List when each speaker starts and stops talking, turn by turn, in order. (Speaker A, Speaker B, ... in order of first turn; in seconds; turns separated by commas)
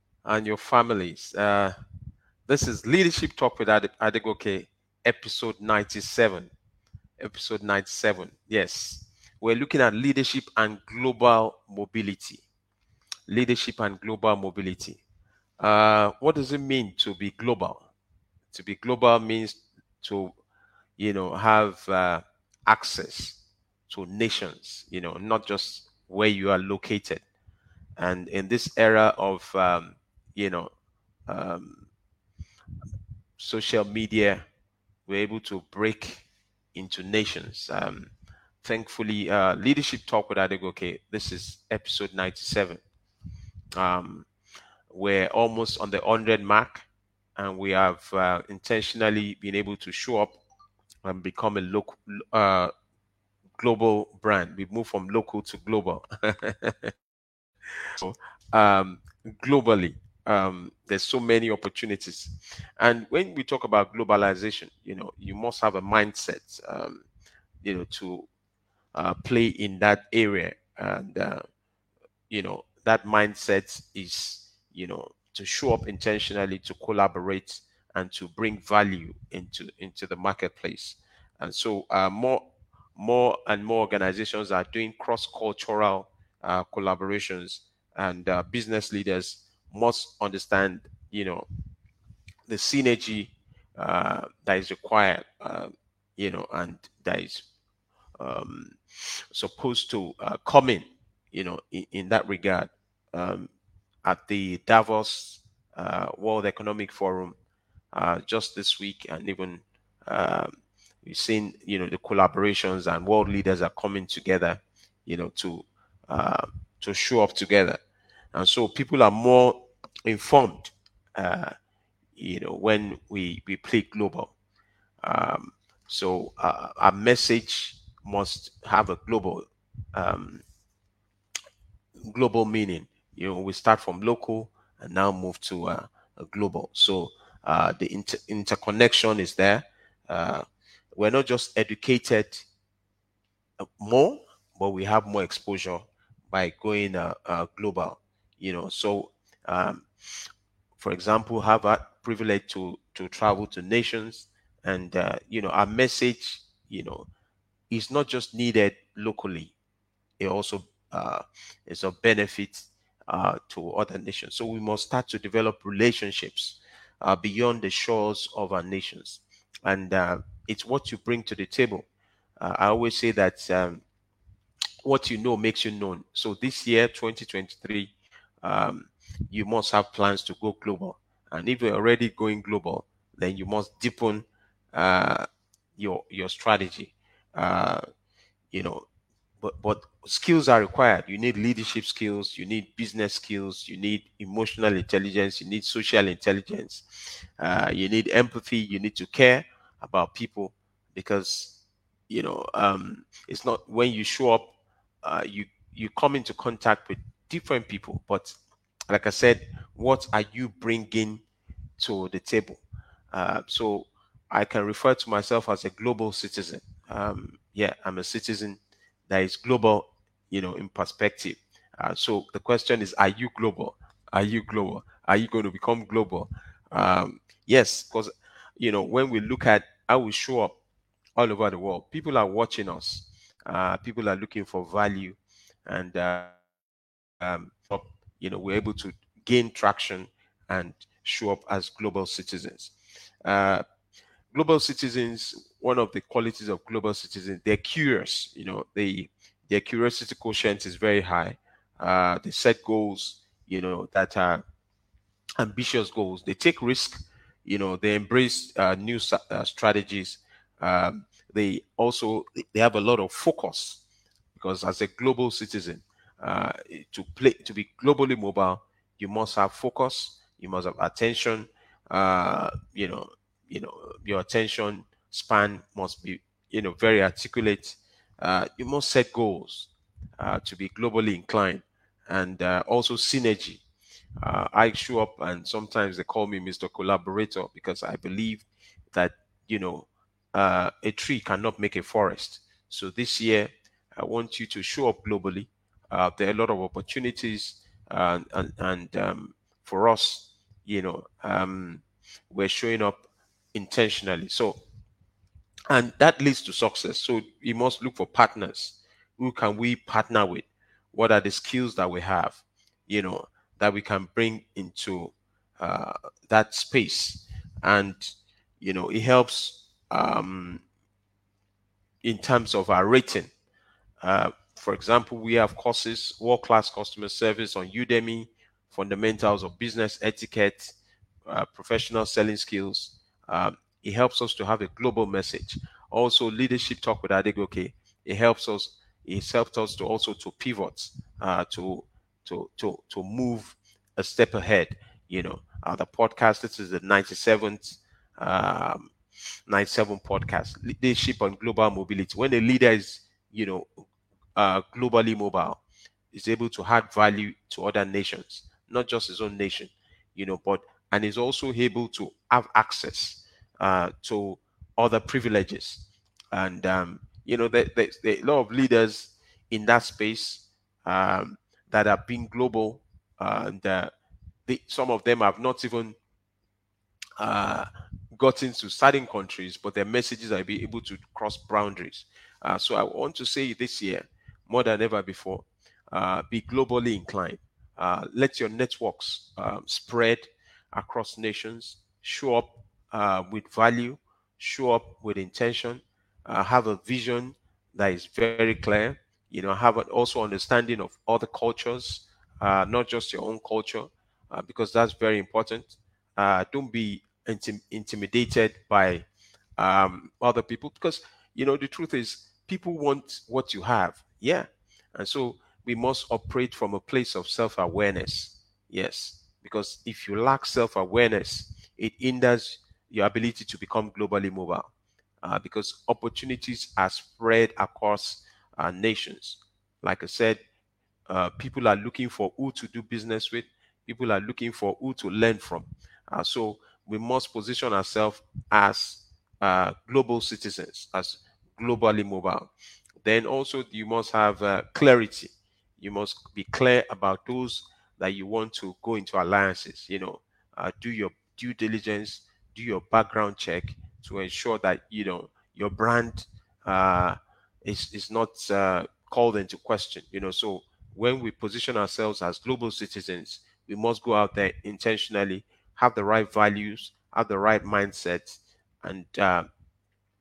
Speaker A: 0.2-1.7, Speaker A: 2.5-6.5, Speaker A: 7.2-12.4, Speaker A: 13.3-15.0, Speaker A: 15.6-17.9, Speaker A: 18.5-20.3, Speaker A: 21.0-27.2, Speaker A: 28.0-30.7, Speaker A: 31.3-31.9, Speaker A: 33.4-34.4, Speaker A: 35.1-38.1, Speaker A: 38.6-42.8, Speaker A: 43.8-44.3, Speaker A: 44.9-50.4, Speaker A: 51.0-52.7, Speaker A: 53.6-56.9, Speaker A: 58.0-67.0, Speaker A: 67.6-68.3, Speaker A: 68.9-71.4, Speaker A: 72.3-91.5, Speaker A: 92.5-97.5, Speaker A: 98.2-98.8, Speaker A: 99.3-103.5, Speaker A: 104.0-107.3, Speaker A: 107.9-117.8, Speaker A: 118.3-121.5, Speaker A: 122.2-124.3, Speaker A: 125.0-130.4, Speaker A: 132.1-142.5, Speaker A: 143.6-149.9, Speaker A: 150.8-157.1, Speaker A: 157.7-159.6, Speaker A: 160.2-171.9, Speaker A: 172.4-173.8, Speaker A: 174.8-177.9, Speaker A: 178.4-185.3, Speaker A: 185.8-187.8, Speaker A: 188.5-188.9, Speaker A: 189.4-196.8, Speaker A: 197.4-201.6, Speaker A: 202.1-204.5, Speaker A: 205.0-208.4, Speaker A: 208.9-211.2, Speaker A: 211.8-230.6, Speaker A: 231.2-236.3, Speaker A: 237.2-242.7, Speaker A: 243.2-243.6, Speaker A: 244.3-254.4, Speaker A: 255.4-263.8, Speaker A: 264.4-283.6, Speaker A: 284.2-304.6, Speaker A: 305.7-320.6, Speaker A: 322.0-323.3, Speaker A: 324.0-330.8, Speaker A: 331.3-348.9, Speaker A: 349.5-353.7, Speaker A: 354.4-355.6, Speaker A: 356.1-373.9, Speaker A: 374.5-376.0, Speaker A: 377.2-409.1, Speaker A: 409.6-424.7, Speaker A: 425.2-430.4, Speaker A: 431.1-442.5, Speaker A: 443.0-469.5